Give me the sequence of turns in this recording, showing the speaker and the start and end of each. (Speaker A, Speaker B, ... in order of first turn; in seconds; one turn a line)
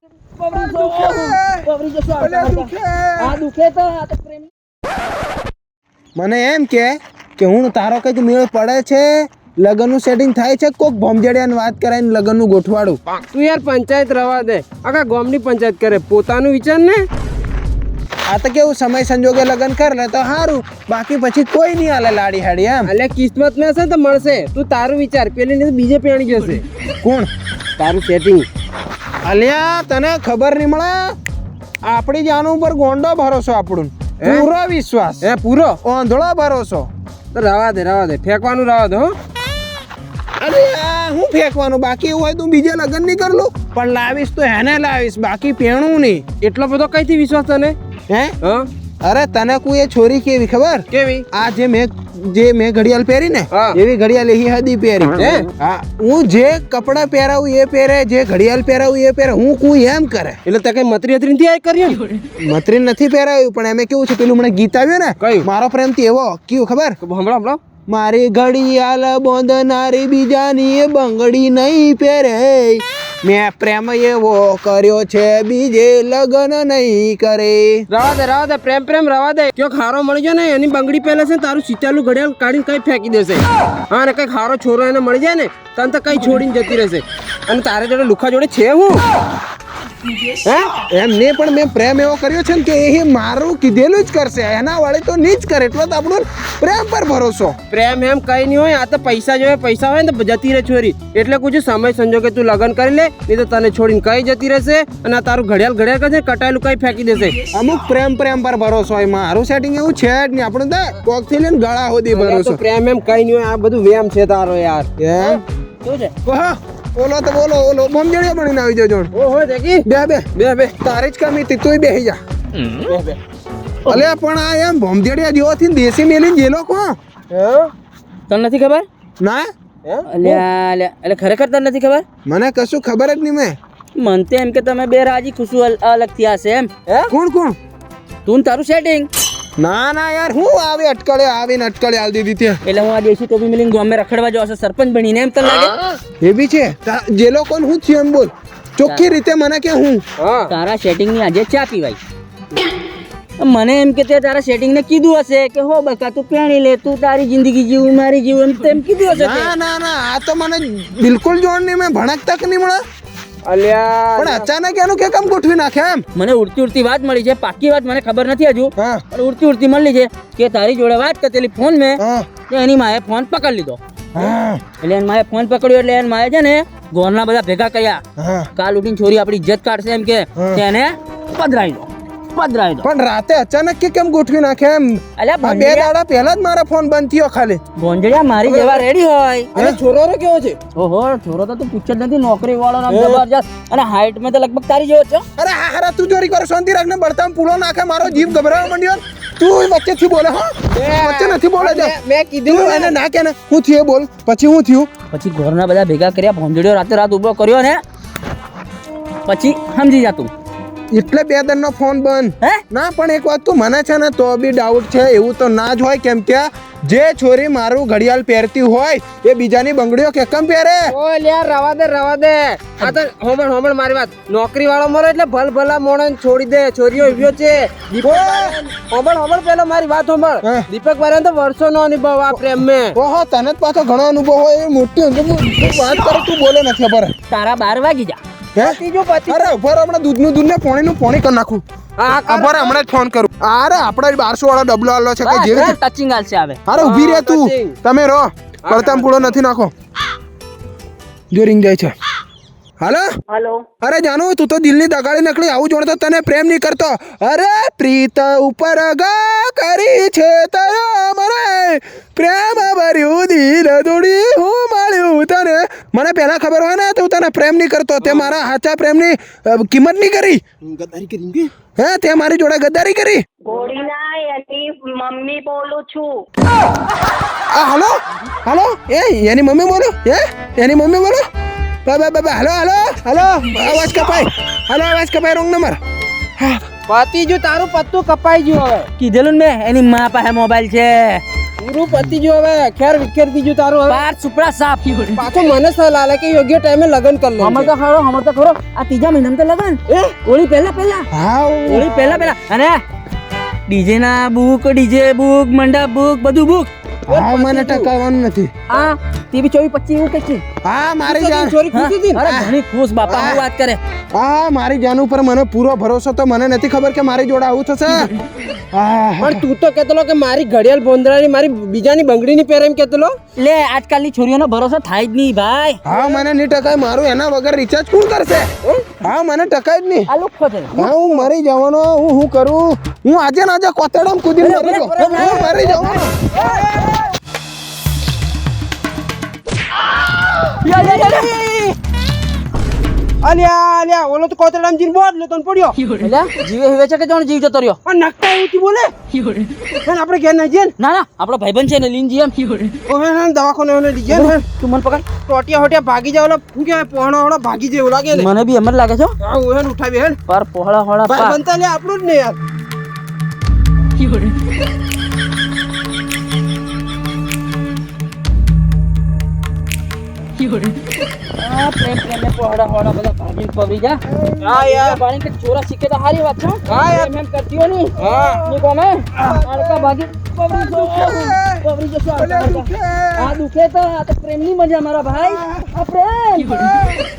Speaker A: 0.4-4.5
Speaker B: 0.5-1.7
Speaker B: 2.2-3.4
Speaker B: 6.2-13.0
Speaker C: 13.3-17.1
Speaker B: 18.3-22.9
Speaker C: 22.9-26.6
Speaker B: 27.0-27.3
Speaker C: 27.8-28.5
Speaker B: 29.2-31.2
Speaker B: 31.8-35.3
Speaker C: 34.2-34.5
Speaker C: 35.2-35.8
Speaker B: 35.8-36.9
Speaker C: 37.3-39.1
Speaker B: 40.4-46.3
Speaker C: 46.4-47.8
Speaker B: 48.1-48.4
Speaker C: 48.4-48.7
Speaker B: 49.0-60.4
Speaker C: 50.9-51.2
Speaker C: 53.5-53.8
Speaker C: 55.2-55.5
Speaker C: 60.5-62.0
Speaker B: 62.4-67.0
Speaker C: 65.2-65.5
Speaker C: 67.0-67.6
Speaker B: 67.9-77.9
Speaker C: 77.9-89.0
Speaker C: 90.4-90.8
Speaker B: 90.9-97.6
Speaker C: 97.7-107.4
Speaker B: 107.5-112.6
Speaker C: 112.1-114.9
Speaker B: 115.0-115.4
Speaker A: 115.8-116.1
Speaker B: 116.2-119.1
Speaker C: 119.1-120.8
Speaker B: 119.8-122.2
Speaker C: 122.8-123.2
Speaker B: 123.8-127.0
Speaker C: 127.3-127.7
Speaker A: 128.3-128.9
Speaker B: 129.2-129.5
Speaker A: 130.1-132.1
Speaker B: 132.2-133.6
Speaker A: 133.9-136.7
Speaker B: 137.1-137.6
Speaker A: 138.2-139.1
Speaker B: 139.6-142.6
Speaker A: 142.6-145.8
Speaker B: 146.2-150.0
Speaker C: 150.2-150.5
Speaker A: 150.5-152.0
Speaker A: 153.4-159.5
Speaker B: 159.1-162.8
Speaker C: 163.4-164.5
Speaker B: 164.2-166.1
Speaker A: 166.1-173.8
Speaker B: 168.8-169.0
Speaker B: 172.0-172.3
Speaker B: 174.1-174.6
Speaker A: 174.8-178.0
Speaker B: 178.2-178.5
Speaker A: 178.6-182.9
Speaker B: 180.4-180.6
Speaker B: 182.8-187.6
Speaker A: 185.2-185.9
Speaker A: 187.8-189.5
Speaker C: 188.4-188.8
Speaker C: 189.6-190.6
Speaker A: 190.8-195.2
Speaker C: 192.9-193.2
Speaker B: 195.4-201.9
Speaker C: 200.7-202.9
Speaker B: 202.4-204.9
Speaker A: 205.1-207.8
Speaker A: 209.2-210.3
Speaker B: 210.9-220.9
Speaker C: 220.9-232.9
Speaker B: 228.0-228.6
Speaker B: 232.9-237.1
Speaker A: 237.3-238.2
Speaker B: 238.6-245.8
Speaker C: 238.6-239.5
Speaker C: 242.0-242.8
Speaker A: 245.2-246.6
Speaker B: 246.7-249.7
Speaker C: 246.7-247.8
Speaker C: 248.7-249.4
Speaker B: 251.3-251.9
Speaker B: 252.8-253.1
Speaker D: 253.3-253.7
Speaker B: 253.8-270.4
Speaker C: 268.0-268.5
Speaker C: 270.6-271.5
Speaker B: 271.8-273.2
Speaker D: 273.4-276.3
Speaker B: 277.5-281.2
Speaker B: 281.9-285.8
Speaker B: 286.4-286.6
Speaker C: 286.9-288.9
Speaker A: 289.0-291.2
Speaker C: 291.6-294.0
Speaker A: 293.9-295.1
Speaker C: 295.1-297.7
Speaker A: 297.4-301.1
Speaker C: 299.9-300.1
Speaker B: 301.1-301.9
Speaker A: 301.6-302.8
Speaker C: 302.0-302.2
Speaker A: 303.7-306.7
Speaker B: 307.1-308.5
Speaker C: 307.1-307.9
Speaker A: 308.7-310.4
Speaker B: 310.6-311.6
Speaker C: 311.1-312.2
Speaker A: 311.7-313.8
Speaker B: 312.2-312.5
Speaker C: 313.1-313.3
Speaker B: 313.1-313.4
Speaker B: 314.1-318.1
Speaker B: 318.7-319.5
Speaker C: 319.2-323.1
Speaker A: 323.4-325.8
Speaker B: 325.9-328.5
Speaker C: 325.9-326.2
Speaker B: 329.0-330.1
Speaker A: 330.1-330.9
Speaker B: 330.8-336.2
Speaker A: 334.4-335.6
Speaker C: 334.6-337.0
Speaker A: 340.5-341.3
Speaker C: 340.7-341.7
Speaker C: 343.2-345.9
Speaker A: 345.9-347.8
Speaker C: 347.9-348.9
Speaker C: 349.7-350.7
Speaker A: 350.8-352.7
Speaker C: 352.9-354.4
Speaker A: 354.1-355.0
Speaker C: 355.2-358.3
Speaker A: 358.1-359.1
Speaker C: 359.2-360.2
Speaker A: 360.3-361.4
Speaker C: 361.1-362.4
Speaker A: 371.4-386.9
Speaker B: 374.1-374.5
Speaker C: 374.4-375.0
Speaker C: 376.7-377.1
Speaker C: 378.0-378.4
Speaker B: 379.2-379.9
Speaker B: 380.5-383.4
Speaker B: 385.1-385.7
Speaker B: 386.6-387.0